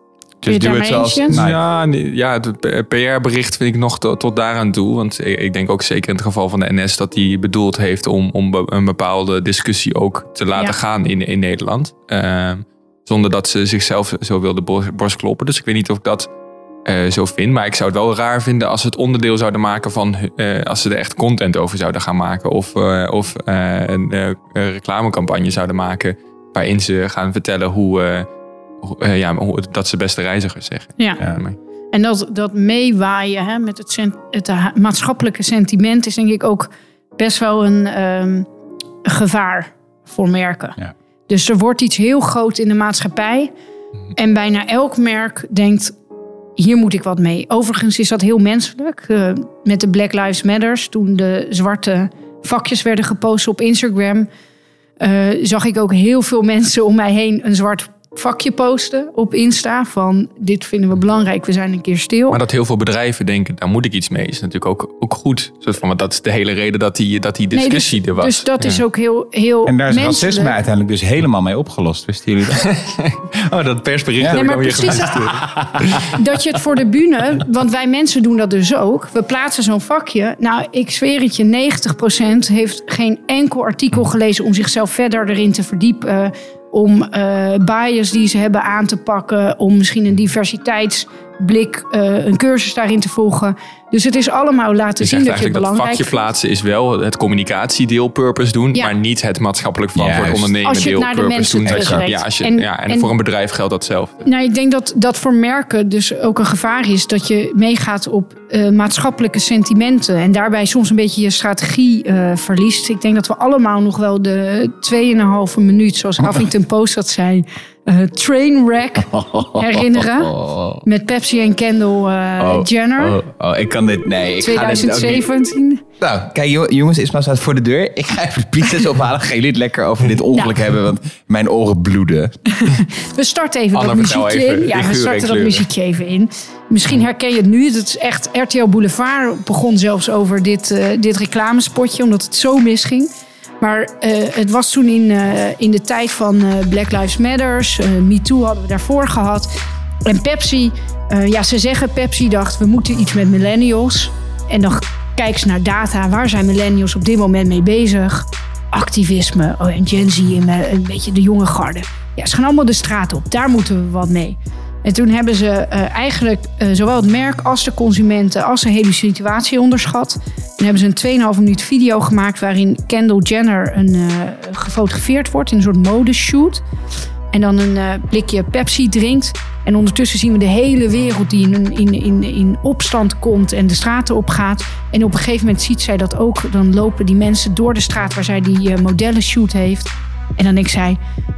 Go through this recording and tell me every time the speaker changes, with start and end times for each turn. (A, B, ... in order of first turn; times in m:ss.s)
0:00.4-0:01.6 A
0:00.5-0:01.4 B
0:01.3-0:16.3 C
0:16.9-0:28.3 C
0:28.8-0:31.6 C
0:31.9-0:38.5 B
0:39.0-0:40.8 B
0:41.3-0:43.5 B
0:44.2-0:46.0 B
0:46.6-0:54.3 B
0:55.0-1:02.4 B
1:02.3-1:08.8 C
1:07.5-1:10.6 B
1:09.7-1:12.7 A
1:12.5-1:16.1 C
1:14.2-1:15.9 A
1:14.3-1:15.2 B
1:16.1-1:36.2 B
1:35.0-1:44.2 C
1:40.0-1:40.5 A
1:40.6-1:43.1 B
1:41.6-1:42.1 A
1:44.2-2:03.2 B
1:59.1-2:00.8 A
2:02.4-2:05.3 A
2:04.4-2:05.8 B
2:06.0-2:12.4 A
2:12.6-2:29.5 B
2:13.8-2:15.7 C
2:30.1-2:56.6 B
2:57.3-3:11.0 B